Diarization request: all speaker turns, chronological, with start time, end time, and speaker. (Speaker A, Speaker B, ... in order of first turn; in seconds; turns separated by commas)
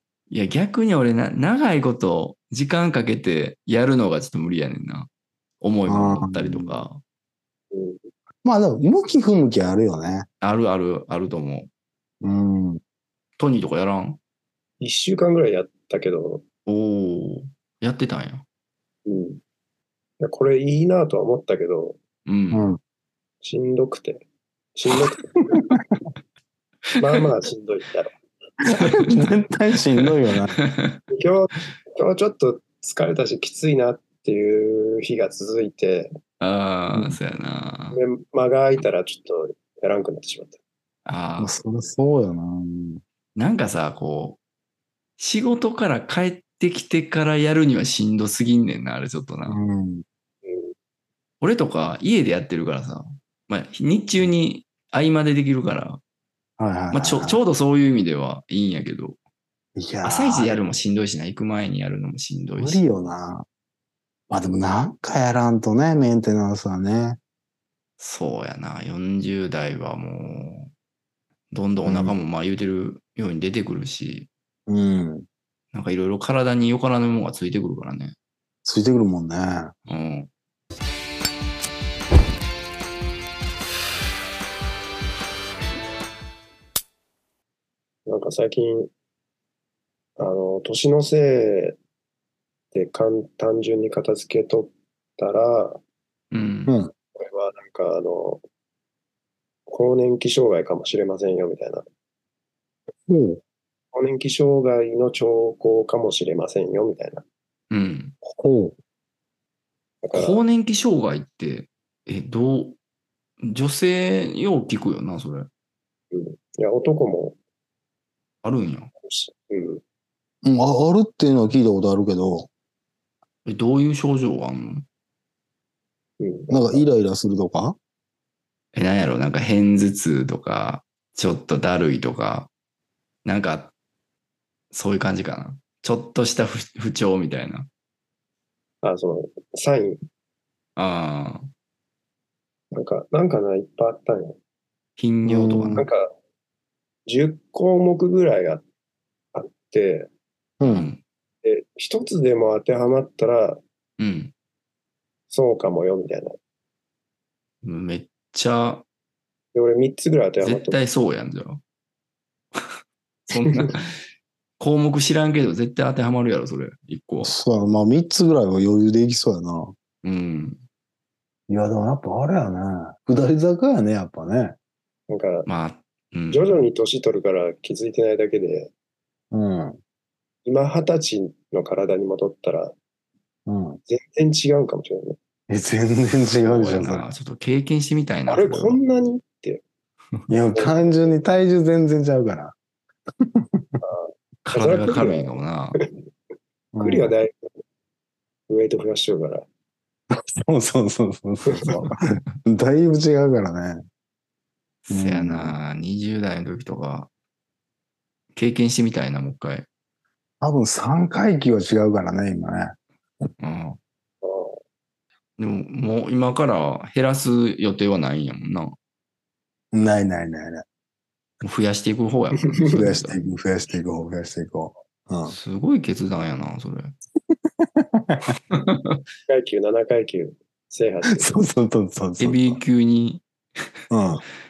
Speaker A: 0.3-5.1, Speaker A: 5.6-7.0, Speaker B: 5.9-6.8, Speaker C: 7.7-8.0, Speaker B: 8.4-10.3, Speaker A: 10.4-11.7, Speaker B: 12.2-12.8, Speaker A: 13.4-14.2, Speaker C: 14.8-16.4, Speaker A: 16.7-18.4, Speaker C: 19.1-19.4, Speaker C: 20.2-22.0, Speaker A: 22.2-22.6, Speaker B: 22.5-22.8, Speaker C: 23.4-25.7, Speaker B: 25.5-25.8, Speaker C: 27.0-28.1, Speaker B: 28.6-30.6, Speaker A: 28.8-29.3, Speaker A: 30.6-31.0, Speaker C: 31.1-36.1, Speaker A: 36.4-38.0, Speaker C: 37.9-40.6, Speaker A: 41.0-41.5, Speaker B: 41.4-43.0, Speaker A: 43.3-44.4, Speaker A: 45.2-49.6, Speaker B: 49.5-50.0, Speaker C: 50.4-50.7, Speaker A: 51.4-56.0, Speaker B: 56.6-57.4, Speaker A: 56.9-59.2, Speaker B: 59.8-60.6, Speaker A: 60.0-62.8, Speaker B: 62.6-63.5, Speaker B: 64.3-67.2, Speaker A: 68.0-70.7, Speaker A: 71.5-74.3, Speaker B: 71.8-72.2, Speaker B: 74.7-75.3, Speaker A: 75.7-78.1, Speaker B: 78.6-79.7, Speaker A: 79.9-80.3, Speaker C: 88.0-88.9, Speaker C: 90.2-91.8, Speaker C: 92.7-95.8, Speaker A: 96.3-96.7, Speaker B: 96.7-96.9, Speaker C: 97.2-98.4, Speaker C: 99.7-101.8, Speaker B: 103.1-103.4, Speaker C: 103.9-107.2, Speaker A: 107.7-108.1, Speaker B: 108.2-108.8, Speaker C: 110.0-110.4, Speaker A: 110.1-112.8, Speaker A: 113.4-115.5, Speaker C: 116.1-117.4, Speaker A: 118.4-118.9, Speaker C: 119.0-119.8, Speaker B: 120.4-122.5, Speaker A: 123.5-124.8, Speaker C: 126.2-126.8, Speaker B: 126.5-127.8, Speaker A: 128.7-132.5, Speaker A: 133.2-133.7, Speaker A: 134.7-137.7, Speaker C: 138.8-140.0, Speaker A: 140.8-141.5, Speaker C: 142.7-144.4, Speaker A: 145.0-145.8, Speaker B: 145.2-145.8, Speaker C: 145.8-146.1, Speaker C: 147.1-148.6, Speaker C: 149.3-150.1, Speaker B: 150.6-150.9, Speaker A: 150.6-151.0, Speaker C: 151.4-153.6, Speaker A: 154.0-154.3, Speaker C: 155.3-156.4, Speaker A: 157.6-158.8, Speaker C: 159.5-160.8, Speaker A: 160.4-161.6, Speaker A: 163.3-164.0, Speaker C: 163.3-163.7, Speaker A: 164.6-167.3, Speaker B: 167.2-169.7, Speaker A: 170.0-170.6, Speaker B: 171.5-174.6, Speaker C: 175.1-175.5, Speaker A: 175.4-176.6, Speaker C: 176.3-178.7, Speaker B: 179.3-179.8, Speaker C: 180.4-182.7, Speaker B: 183.5-183.8, Speaker C: 183.9-185.2, Speaker B: 185.5-187.0, Speaker A: 186.4-188.8, Speaker C: 188.3-189.6, Speaker B: 190.3-192.5, Speaker B: 193.2-193.8, Speaker C: 193.8-196.0, Speaker A: 194.4-195.8, Speaker B: 196.7-197.1, Speaker C: 196.8-197.5, Speaker C: 198.5-199.5, Speaker B: 200.4-203.8, Speaker A: 204.9-207.1, Speaker B: 204.9-205.5, Speaker A: 208.3-209.7, Speaker B: 210.4-212.8, Speaker A: 213.4-213.8, Speaker C: 214.2-214.6, Speaker A: 215.4-218.8, Speaker B: 219.7-220.6, Speaker A: 221.4-223.2, Speaker B: 222.7-225.3, Speaker A: 225.3-226.9, Speaker B: 227.8-228.3, Speaker A: 228.5-229.0, Speaker C: 229.3-231.4, Speaker B: 231.1-232.6, Speaker A: 232.2-233.2, Speaker B: 233.9-234.2